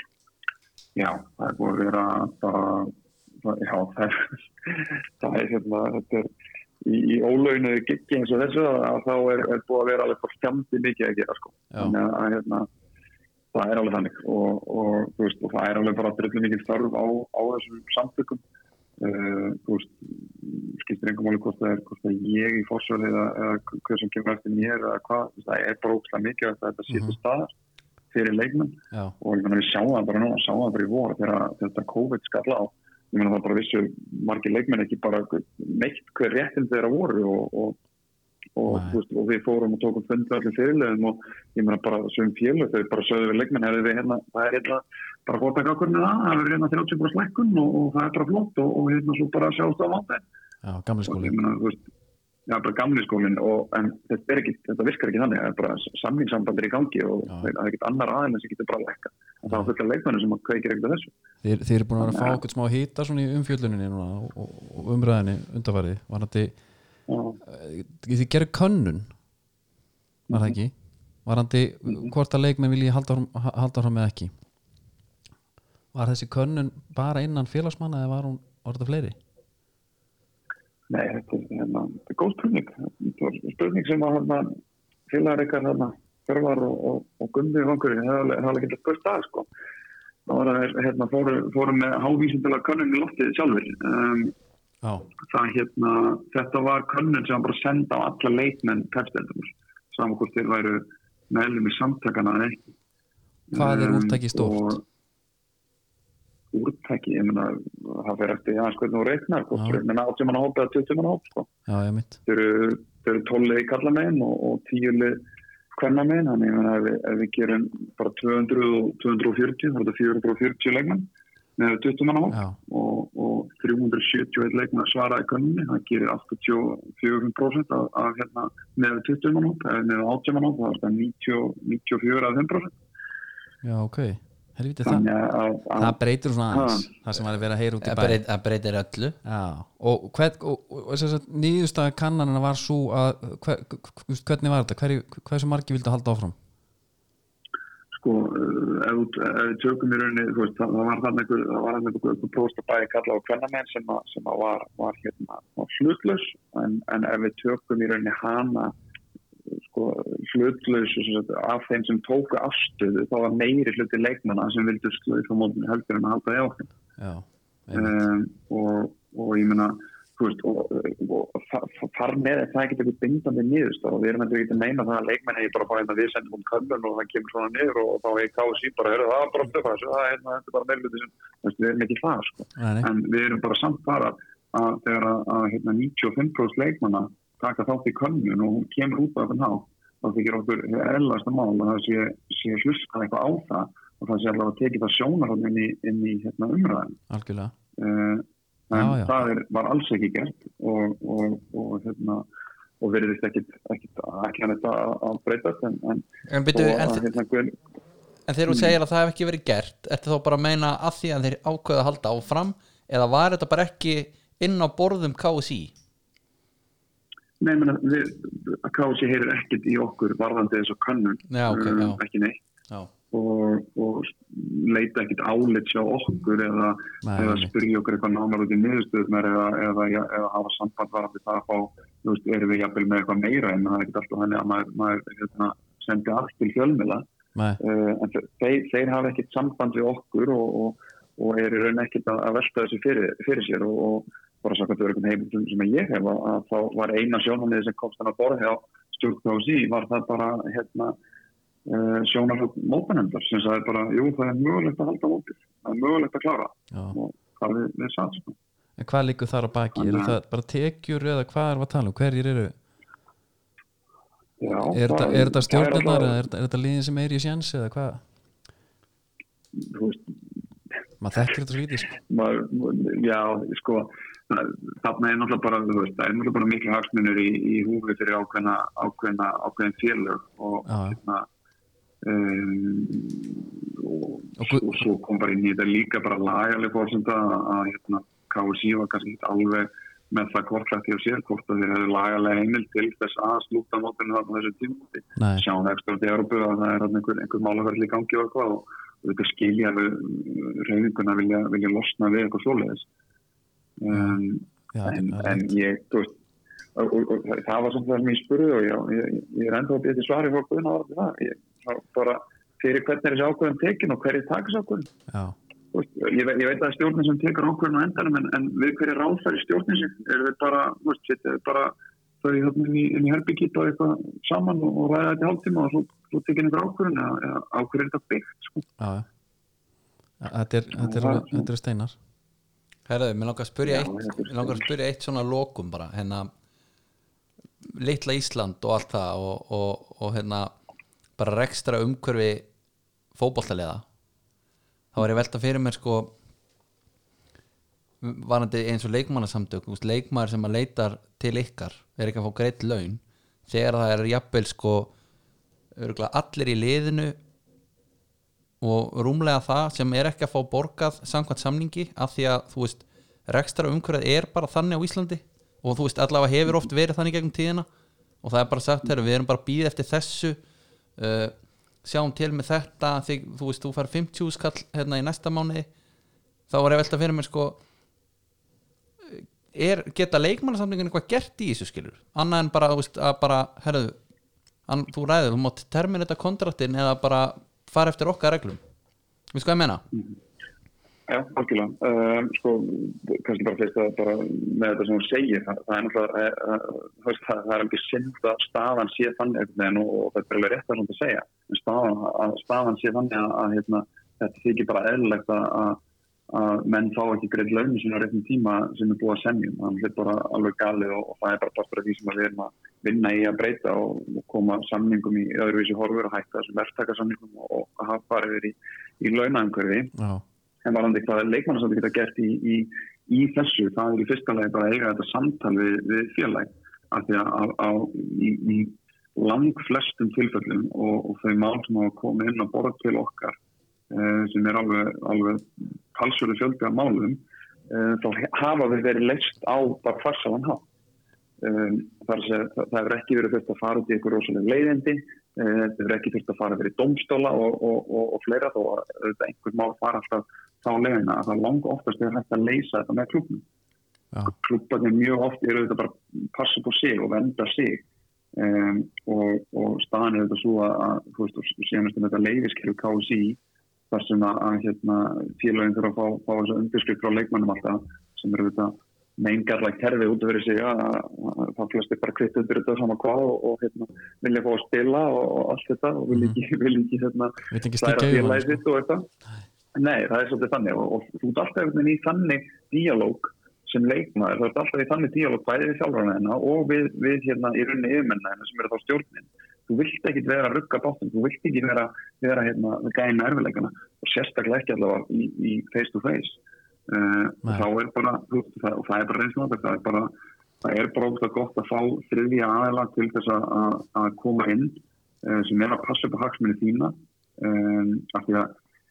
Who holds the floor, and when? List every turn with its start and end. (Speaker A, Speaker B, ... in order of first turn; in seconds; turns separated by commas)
Speaker A: 0.9-6.3, Speaker A: 6.8-12.7, Speaker A: 13.5-18.4, Speaker A: 19.0-27.5, Speaker B: 26.9-27.1, Speaker A: 28.1-37.8, Speaker A: 38.5-50.2, Speaker B: 38.7-39.0, Speaker B: 50.6-51.4, Speaker A: 51.0-51.8, Speaker A: 52.5-61.1, Speaker B: 61.4-66.5, Speaker A: 62.0-62.4, Speaker A: 67.1-67.4, Speaker B: 67.4-69.1, Speaker B: 70.3-70.7, Speaker B: 71.2-74.3, Speaker B: 75.9-79.2, Speaker A: 80.9-84.5, Speaker A: 85.1-89.5, Speaker A: 90.3-94.3, Speaker A: 95.3-102.7, Speaker A: 103.5-104.8, Speaker B: 103.5-104.8, Speaker A: 106.5-111.5, Speaker B: 111.7-112.2, Speaker A: 112.2-132.7, Speaker B: 122.3-122.6, Speaker B: 133.6-135.1, Speaker A: 134.8-136.0, Speaker B: 135.7-138.2, Speaker A: 136.5-136.9, Speaker C: 137.8-139.2, Speaker B: 139.2-146.3, Speaker A: 147.9-158.7, Speaker A: 159.5-166.7, Speaker B: 167.0-167.9, Speaker A: 167.7-197.0, Speaker B: 182.6-182.9, Speaker B: 197.1-197.5, Speaker A: 197.8-202.2, Speaker B: 198.7-199.3, Speaker A: 202.8-207.6, Speaker C: 206.3-207.1, Speaker C: 208.3-215.7, Speaker A: 208.5-208.7, Speaker A: 217.4-222.4, Speaker C: 221.3-222.0, Speaker A: 223.1-237.0, Speaker B: 227.0-227.5, Speaker B: 237.3-237.6, Speaker A: 237.6-250.9, Speaker A: 251.7-258.4, Speaker B: 256.7-257.0, Speaker B: 258.8-262.5, Speaker A: 259.7-260.1, Speaker A: 264.4-266.2, Speaker B: 264.7-268.0, Speaker A: 269.5-270.1, Speaker B: 271.0-271.9, Speaker A: 272.0-281.2, Speaker B: 280.7-281.0, Speaker A: 282.0-302.9, Speaker B: 284.4-284.8, Speaker B: 295.2-295.4, Speaker A: 303.8-306.2, Speaker B: 303.9-304.2, Speaker B: 304.7-305.5, Speaker A: 306.7-314.9, Speaker B: 315.1-315.3, Speaker A: 315.7-328.6, Speaker B: 328.8-329.1, Speaker B: 330.2-331.9, Speaker A: 330.8-331.5, Speaker C: 332.9-336.3, Speaker A: 333.6-334.6, Speaker C: 337.6-340.5, Speaker C: 341.2-342.4, Speaker C: 343.1-343.8, Speaker C: 344.9-346.1, Speaker C: 348.0-354.9, Speaker C: 355.7-357.2, Speaker C: 358.6-367.7, Speaker C: 368.2-370.4, Speaker C: 371.0-375.7, Speaker C: 376.5-377.6, Speaker C: 379.1-384.0, Speaker C: 384.7-388.6, Speaker C: 389.3-389.8, Speaker A: 391.1-419.9, Speaker B: 419.9-420.2, Speaker A: 420.6-433.4, Speaker A: 433.9-440.6, Speaker A: 441.4-453.4, Speaker A: 454.3-457.8, Speaker A: 458.3-463.4, Speaker A: 463.9-479.1, Speaker B: 476.1-476.4, Speaker B: 477.5-478.6, Speaker A: 479.8-508.5